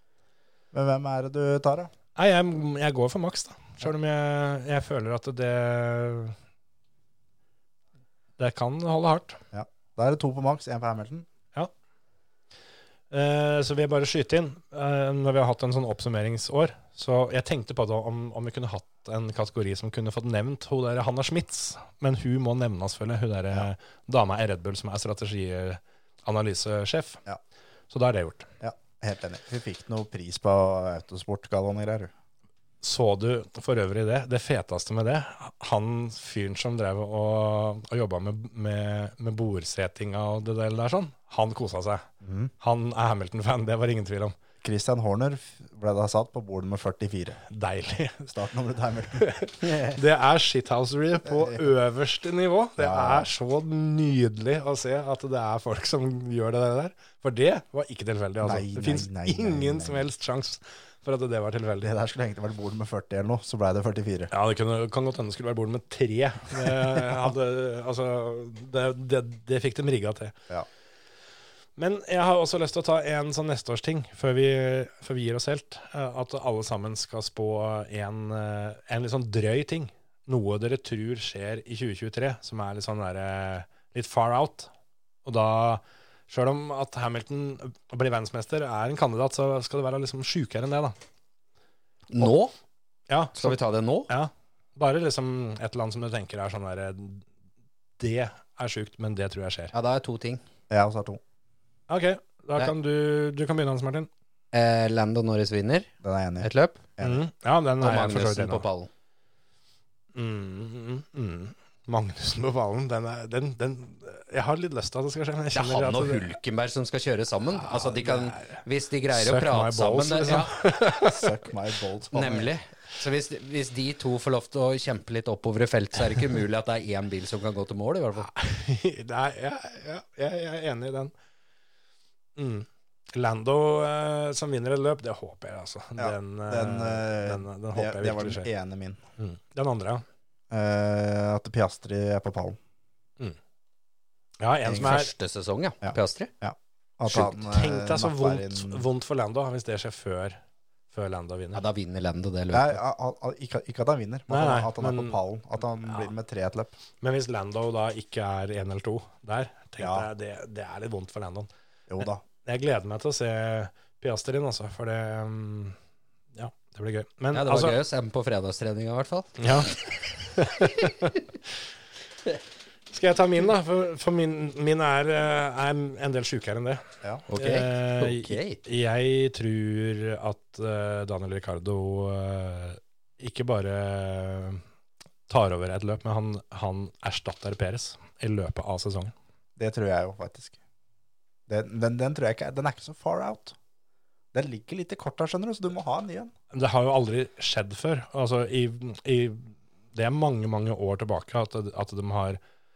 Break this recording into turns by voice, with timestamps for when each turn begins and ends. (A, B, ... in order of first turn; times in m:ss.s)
0:00.7-0:01.9 A
0:02.2-0:06.4 B
0:08.4-0:09.4 B
0:09.5-0:11.3 A
0:13.1-0:27.2 B
0:27.9-0:28.5 B
0:28.6-0:32.1 A
0:32.8-0:42.1 B
0:42.2-0:42.5 A
0:42.6-0:44.4 B
0:44.6-0:47.4 A
0:47.5-0:48.4 B
0:48.3-0:49.3 A
0:49.1-1:01.9 B
0:49.6-0:50.0 C
0:51.3-0:51.6 A
0:52.8-0:53.3 A
0:58.4-1:00.1 A
1:01.8-1:04.3 A
1:04.3-1:10.4 B
1:11.8-1:24.7 B
1:25.3-1:30.9 B
1:32.1-1:32.5 C
1:33.1-1:37.2 B
1:33.4-1:34.1 C
1:38.0-1:39.7 B
1:39.7-1:40.4 C
1:40.7-1:41.2 A
1:41.9-1:44.1 B
1:44.5-1:45.9 C
1:46.0-1:47.2 A
1:46.4-1:46.8 C
1:47.0-1:48.6 B
1:47.8-1:48.9 C
1:50.2-1:56.4 B
1:55.5-2:00.6 C
1:57.5-2:01.4 B
2:00.9-2:02.5 A
2:02.1-2:08.3 C
2:08.2-2:11.1 B
2:12.4-2:18.5 B
2:16.0-2:19.0 A
2:19.2-2:20.0 B
2:20.5-2:22.6 A
2:24.4-2:25.1 B
2:24.6-2:26.3 C
2:25.8-2:28.9 A
2:27.1-2:30.4 B
2:30.9-2:31.6 B
2:31.6-2:32.8 C
2:32.5-2:36.8 A
2:34.3-2:35.2 B
2:35.8-2:36.1 B
2:37.0-2:41.5 B
2:39.8-2:40.1 A
2:41.9-2:42.2 A
2:42.4-2:45.8 B
2:46.4-2:47.8 B
2:47.3-2:49.4 C
2:49.4-2:51.2 B
2:52.9-2:56.8 B
2:57.3-2:58.6 C
2:57.4-3:04.6 B
3:05.3-3:09.1 B
3:09.6-3:10.6 A
3:11.5-3:13.6 A
3:14.3-3:16.3 A
3:16.5-3:22.4 B